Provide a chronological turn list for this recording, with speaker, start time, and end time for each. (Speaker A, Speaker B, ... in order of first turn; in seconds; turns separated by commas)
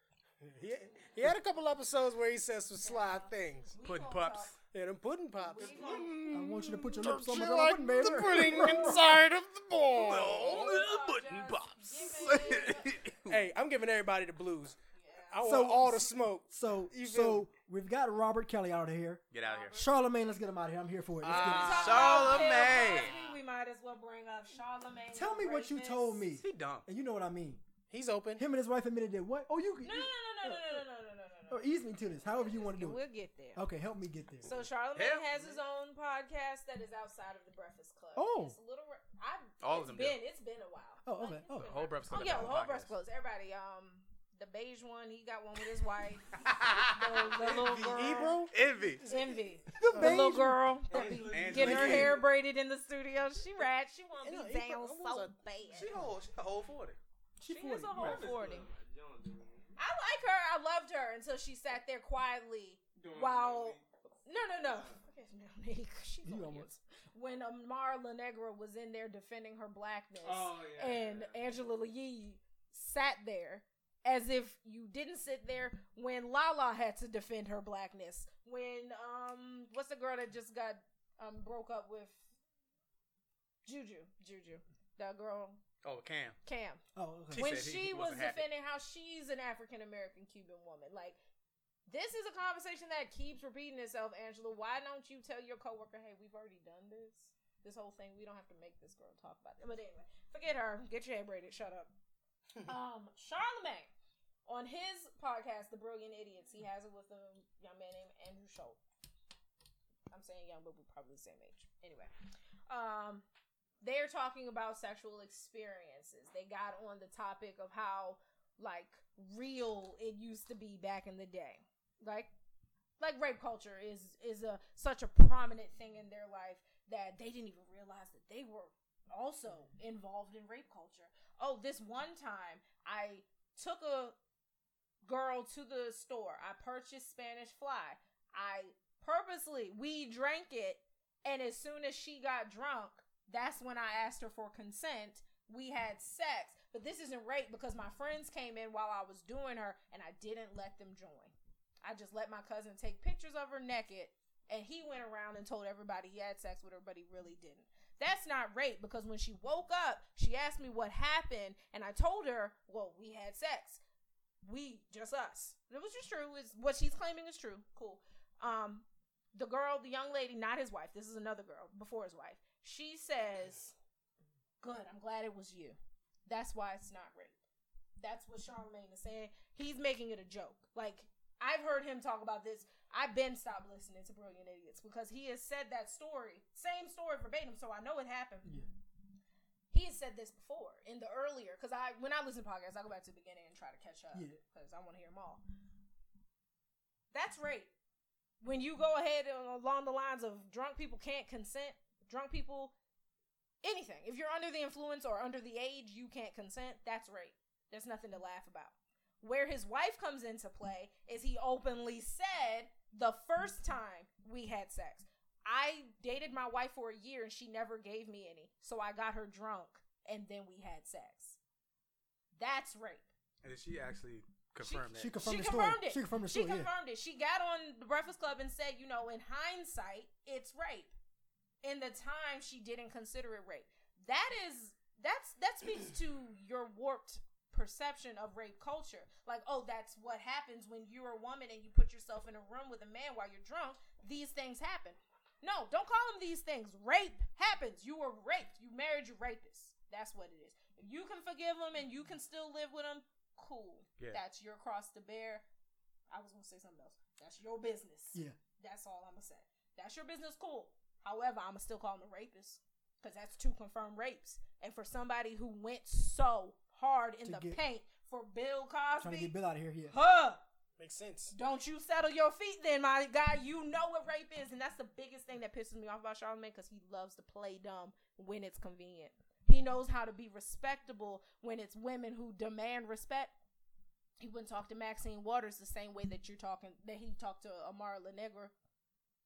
Speaker A: 0.4-3.7, Speaker B: 2.8-4.5, Speaker C: 3.8-4.5, Speaker A: 4.7-10.6, Speaker B: 5.4-6.4, Speaker D: 6.3-9.1, Speaker C: 9.9-13.4, Speaker B: 10.1-13.0, Speaker A: 13.3-14.8, Speaker B: 14.9-15.4, Speaker A: 15.3-17.5, Speaker D: 15.4-19.2, Speaker C: 19.3-19.8, Speaker B: 19.4-19.9, Speaker D: 19.7-22.2, Speaker A: 21.2-22.7, Speaker B: 21.2-26.2, Speaker C: 21.3-23.2, Speaker D: 25.1-27.6, Speaker C: 26.4-26.9, Speaker A: 27.9-28.4, Speaker D: 28.4-30.8, Speaker B: 29.8-33.6, Speaker D: 31.5-33.0, Speaker D: 33.5-34.5, Speaker B: 34.4-48.4, Speaker C: 34.9-35.5, Speaker D: 38.1-38.5, Speaker C: 39.6-40.2, Speaker D: 41.0-41.8, Speaker C: 41.6-42.9, Speaker C: 46.4-47.7, Speaker A: 47.4-50.2, Speaker C: 48.5-49.0, Speaker B: 49.1-55.9, Speaker D: 49.8-52.0, Speaker E: 50.9-52.1, Speaker C: 51.3-52.2, Speaker A: 51.6-52.1, Speaker A: 54.2-55.3, Speaker C: 55.7-57.0, Speaker D: 57.4-58.2, Speaker B: 57.4-58.7, Speaker E: 57.9-59.7, Speaker B: 59.8-82.2, Speaker E: 63.0-63.8, Speaker E: 64.6-65.0, Speaker D: 66.2-66.7, Speaker E: 70.2-71.4, Speaker B: 83.6-85.6, Speaker C: 85.8-86.3, Speaker B: 86.4-86.8, Speaker D: 87.0-87.4, Speaker C: 87.3-88.4, Speaker B: 87.3-91.2, Speaker B: 91.9-101.9, Speaker B: 102.6-103.9, Speaker B: 104.5-108.8, Speaker B: 110.1-112.1, Speaker B: 112.7-113.2, Speaker B: 113.8-122.3, Speaker B: 123.0-134.2, Speaker B: 135.0-163.8, Speaker B: 164.4-173.7, Speaker B: 174.6-177.3, Speaker B: 178.0-188.5, Speaker B: 189.7-195.4, Speaker B: 197.1-197.7, Speaker B: 198.4-202.7, Speaker B: 203.6-221.4, Speaker B: 222.4-223.1, Speaker C: 223.4-225.1, Speaker B: 224.6-230.9, Speaker D: 224.9-226.7, Speaker B: 231.6-255.4, Speaker B: 256.1-269.3, Speaker D: 267.2-267.6, Speaker D: 269.0-269.9, Speaker B: 269.9-270.4, Speaker A: 270.8-271.3, Speaker B: 271.3-283.3, Speaker B: 284.2-288.5